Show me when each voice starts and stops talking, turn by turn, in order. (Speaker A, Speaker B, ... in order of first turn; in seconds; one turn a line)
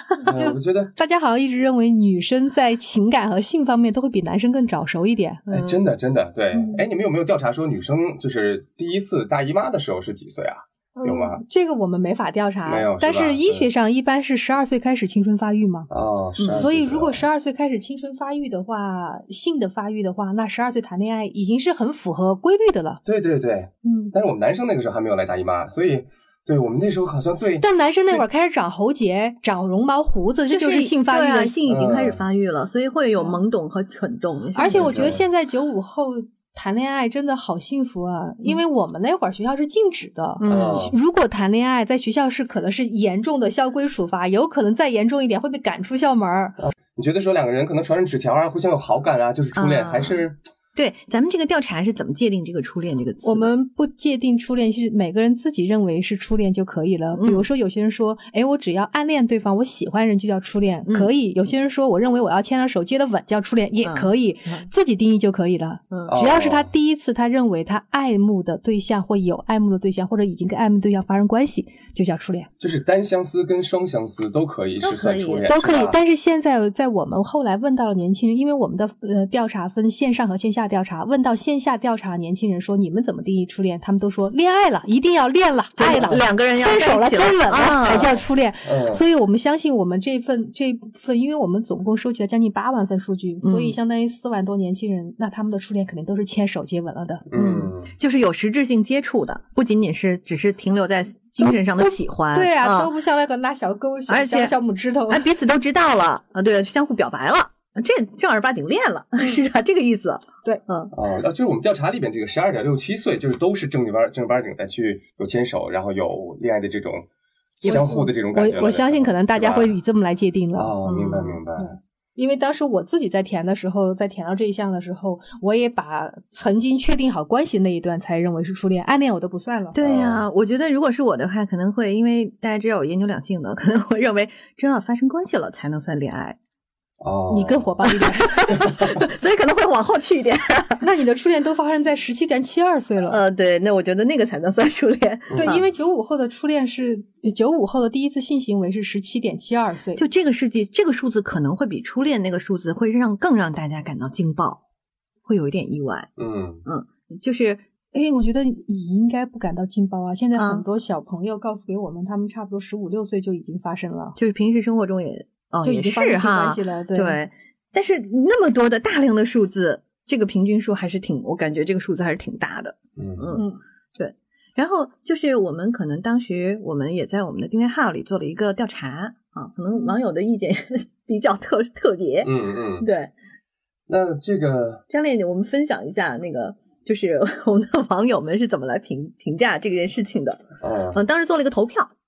Speaker A: 0.2-0.9
Speaker B: 0.2-5.5
Speaker A: 5.5-11.4
Speaker C: 5.5-5.8
Speaker B: 6.5-6.8
Speaker B: 10.9-15.9
Speaker A: 12.6-13.7
Speaker A: 15.9-17.2
Speaker C: 16.4-16.6
Speaker B: 16.4-23.0
Speaker A: 23.1-27.6
Speaker B: 23.8-24.1
Speaker B: 27.6-31.6
Speaker C: 30.5-35.1
Speaker A: 31.6-32.2
Speaker B: 34.5-46.6
Speaker A: 34.7-35.2
Speaker C: 40.4-40.9
Speaker A: 40.5-41.0
Speaker A: 46.6-50.4
Speaker C: 49.5-50.2
Speaker C: 50.8-53.5
Speaker B: 53.2-72.5
Speaker C: 57.1-57.4
Speaker C: 63.8-64.7
Speaker A: 66.1-66.7
Speaker A: 72.6-76.0
Speaker C: 74.8-75.5
Speaker B: 75.5-97.2
Speaker C: 85.8-88.1
Speaker A: 88.6-89.0
Speaker C: 93.4-93.8
Speaker A: 97.3-97.9
Speaker C: 97.3-102.9
Speaker B: 101.4-105.2
Speaker C: 104.1-104.5
Speaker C: 105.1-110.9
Speaker A: 110.9-117.1
Speaker A: 117.6-119.7
Speaker B: 117.6-120.7
Speaker A: 120.5-121.8
Speaker C: 120.8-121.4
Speaker B: 122.2-129.7
Speaker C: 129.7-136.4
Speaker A: 129.8-130.2
Speaker A: 137.0-137.7
Speaker B: 137.3-138.6
Speaker C: 137.8-140.8
Speaker A: 138.7-138.9
Speaker B: 140.8-143.2
Speaker C: 143.1-145.6
Speaker A: 145.3-145.6
Speaker B: 145.3-150.0
Speaker C: 149.9-154.6
Speaker C: 155.2-156.1
Speaker A: 156.2-156.6
Speaker C: 156.7-157.6
Speaker B: 157.9-164.2
Speaker C: 160.3-160.6
Speaker C: 164.2-173.4
Speaker B: 165.6-167.2
Speaker A: 173.0-173.4
Speaker B: 173.3-173.6
Speaker C: 174.0-183.1
Speaker A: 182.2-182.9
Speaker A: 183.9-184.8
Speaker C: 184.9-191.9
Speaker A: 190.6-191.0